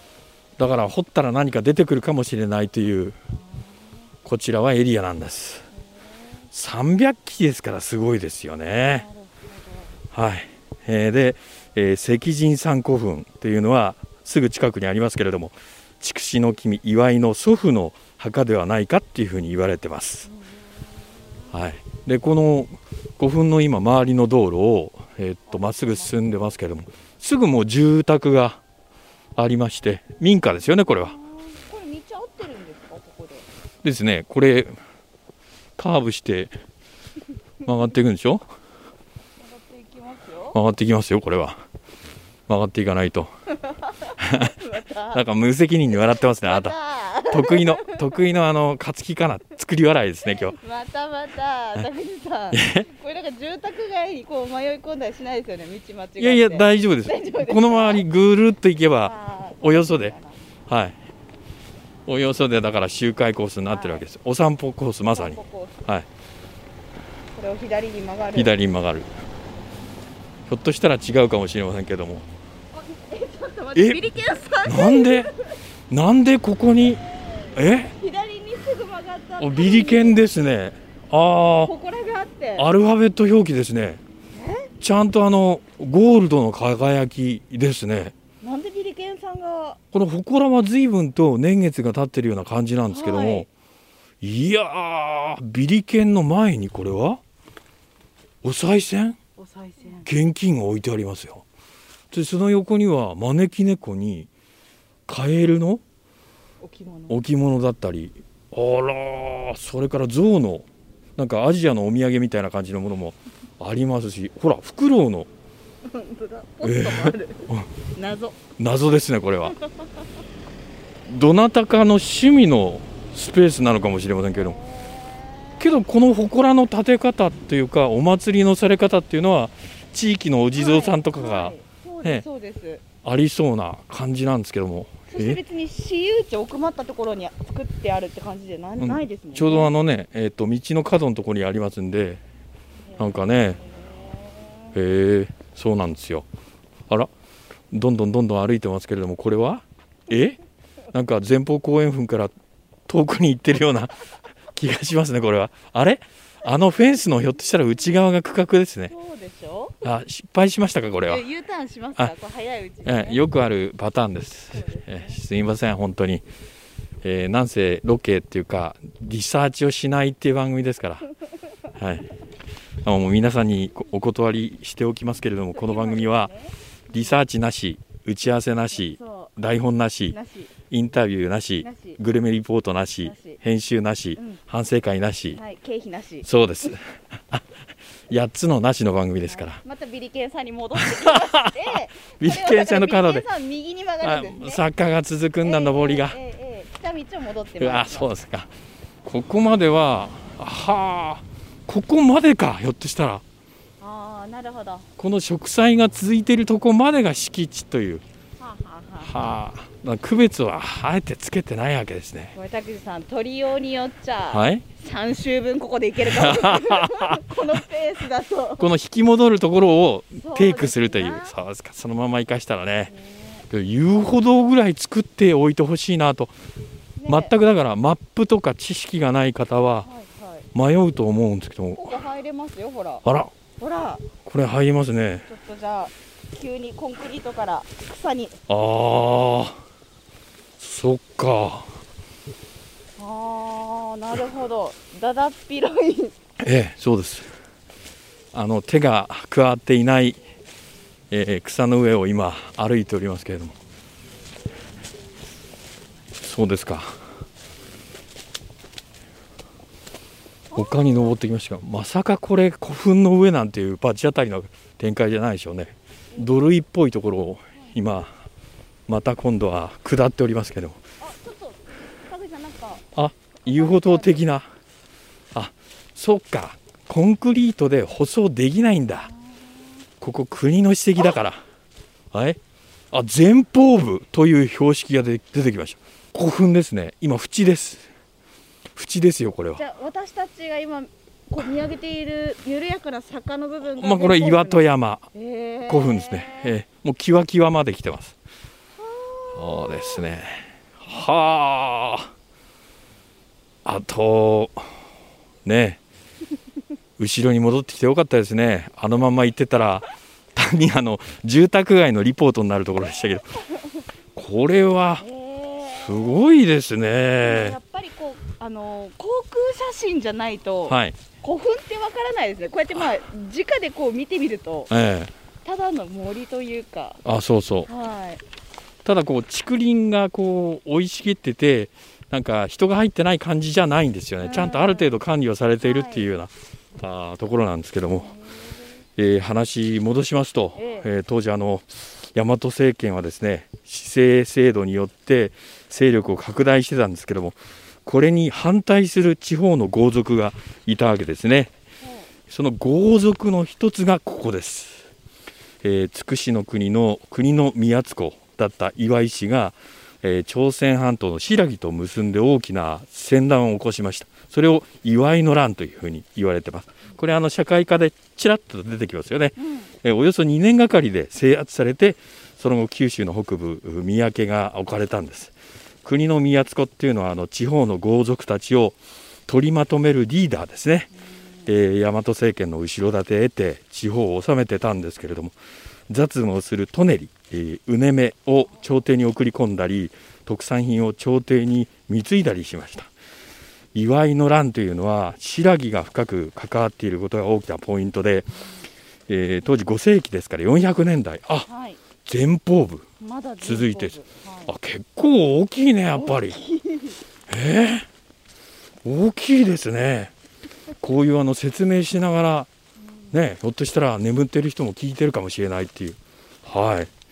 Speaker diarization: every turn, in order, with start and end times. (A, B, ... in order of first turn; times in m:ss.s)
0:00.6-0:03.2 A
0:03.3-0:03.9 B
0:04.2-0:05.6 A
0:05.8-0:06.4 B
0:06.5-0:09.0 A
0:08.9-0:10.0 B
0:10.1-0:20.3 A
0:20.2-0:21.2 B
0:21.5-0:28.6 A
0:25.5-0:26.2 B
0:29.4-0:31.2 A
0:30.9-0:33.5 B
0:33.8-0:34.7 A
0:35.8-0:36.5 A
0:37.6-0:38.4 A
0:39.4-0:40.6 B
0:40.5-0:41.6 A
0:42.5-0:43.3 A
0:43.6-0:45.2 B
0:44.2-0:44.5 A
0:45.1-0:46.8 A
0:46.2-0:48.0 B
0:47.3-0:50.6 A
0:50.3-0:58.0 B
0:52.5-0:52.9 A
0:56.2-1:00.1 A
0:59.0-1:00.4 B
1:00.7-1:01.0 A
1:02.0-1:06.1 A
1:03.7-1:04.0 B
1:05.1-1:05.8 B
1:07.3-1:08.5 B
1:08.3-1:09.1 A
1:10.5-1:12.3 A
1:12.7-1:15.6 B
1:13.8-1:14.0 A
1:14.6-1:15.3 A
1:15.9-1:17.0 A
1:17.5-1:17.9 A
1:18.0-1:20.2 B
1:19.4-1:21.7 A
1:21.6-1:22.7 B
1:22.6-1:24.0 A
1:24.3-1:24.7 B
1:24.8-1:28.1 A
1:28.4-1:29.8 B
1:29.9-1:33.5 A
1:32.9-1:33.5 B
1:34.2-1:37.2 A
1:38.4-1:39.2 A
1:39.4-1:40.1 B
1:40.0-1:41.4 A
1:42.1-1:44.3 A
1:45.1-1:45.8 A
1:46.6-1:47.2 B
1:47.1-1:55.3 A
1:55.8-1:58.4 B
1:56.6-1:57.7 A
1:58.6-1:59.6 A
1:59.5-1:59.8 B
2:01.0-2:04.6 A
2:04.3-2:05.7 B
2:05.6-2:12.2 A
2:10.5-2:12.8 B
2:13.0-2:15.4 A
2:15.1-2:19.7 B
2:18.8-2:22.2 A
2:22.9-2:24.8 B
2:23.0-2:23.6 A
2:24.7-2:26.3 A
2:27.7-2:30.4 A
2:30.9-2:32.3 A
2:32.9-2:33.9 A
2:34.5-2:38.9 A
2:38.9-2:39.8 B
2:39.8-2:41.2 A
2:41.0-2:43.2 B
2:42.8-2:46.2 A
2:44.5-2:45.2 B
2:47.0-2:51.1 A
2:51.8-2:52.1 A
2:52.8-2:56.3 A
2:55.5-2:57.2 B
2:56.9-3:00.2 A
2:58.7-2:59.3 B
3:00.1-3:00.5 B
3:00.7-3:05.4 A
3:01.6-3:02.0 B
3:03.0-3:03.4 B
3:04.2-3:04.4 B
3:05.3-3:06.3 B
3:06.2-3:07.4 A
3:08.1-3:09.6 A
3:09.3-3:14.6 B
3:10.8-3:13.2 A
3:14.0-3:16.2 A
3:15.4-3:18.1 B
3:17.6-3:18.5 A
3:19.0-3:23.2 A
3:23.8-3:24.9 B
3:25.0-3:28.0 A
3:28.4-3:29.1 B
3:29.0-3:32.3 A
3:32.3-3:38.7 B
3:34.3-3:34.6 A
3:36.0-3:37.6 A
3:38.6-3:42.9 A
3:40.2-3:41.3 B
3:42.9-3:43.4 B
3:43.5-3:46.3 A
3:47.0-3:47.3 B
3:47.1-3:49.9 A
3:49.8-3:50.5 B
3:50.5-3:52.0 A
3:51.7-3:53.0 B
3:53.0-3:53.3 A
3:53.6-3:54.0 B
3:54.2-3:55.2 A
3:55.2-3:58.4 B
3:58.5-3:59.6 A
4:00.6-4:01.7 A
4:03.0-4:06.1 B
4:06.4-4:07.3 A
4:08.3-4:10.2 A
4:11.1-4:13.6 A
4:16.2-4:17.0 A
4:20.5-4:21.1 B
4:20.5-4:28.2 A
4:28.9-4:30.8 A
4:31.0-4:32.9 B
4:32.9-4:34.5 A
4:33.4-4:34.2 B
4:35.3-4:39.1 A
4:39.1-4:39.7 B
4:40.0-4:41.4 A
4:42.1-4:42.4 A
4:42.9-4:47.9 A
4:48.7-4:49.6 A
4:49.6-4:56.5 B
4:53.7-4:55.1 A
4:55.7-4:58.2 A
4:58.8-5:00.1 B
4:59.4-5:02.1 A
5:03.6-5:04.7 A
5:05.4-5:05.8 A
5:07.0-5:13.3 A
5:14.1-5:15.0 A
5:15.0-5:16.2 B
5:15.6-5:17.6 A
5:17.2-5:24.7 B
5:20.7-5:21.0 A
5:24.7-5:25.1 A
5:25.4-5:27.0 B
5:27.0-5:27.7 A
5:27.6-5:28.2 B
5:28.8-5:38.1 A
5:34.2-5:35.0 B
5:35.6-5:36.1 B
5:37.9-5:38.6 B
5:39.0-5:51.5 A
5:40.6-5:40.9 B
5:51.8-5:52.1 B
5:52.3-5:54.9 A
5:55.6-6:15.3 A
6:09.4-6:09.7 B
6:15.8-6:20.9 A
6:21.4-6:25.3 A
6:25.9-6:32.9 A
6:33.7-6:38.3 A
6:39.1-6:41.5 A
6:41.5-6:41.8 B
6:42.0-6:42.9 A
6:43.0-6:44.5 B
6:43.4-6:46.4 A
6:45.9-6:47.0 B
6:47.3-6:47.9 A
6:48.8-6:50.1 A
6:50.8-6:52.5 A
6:53.1-6:56.9 A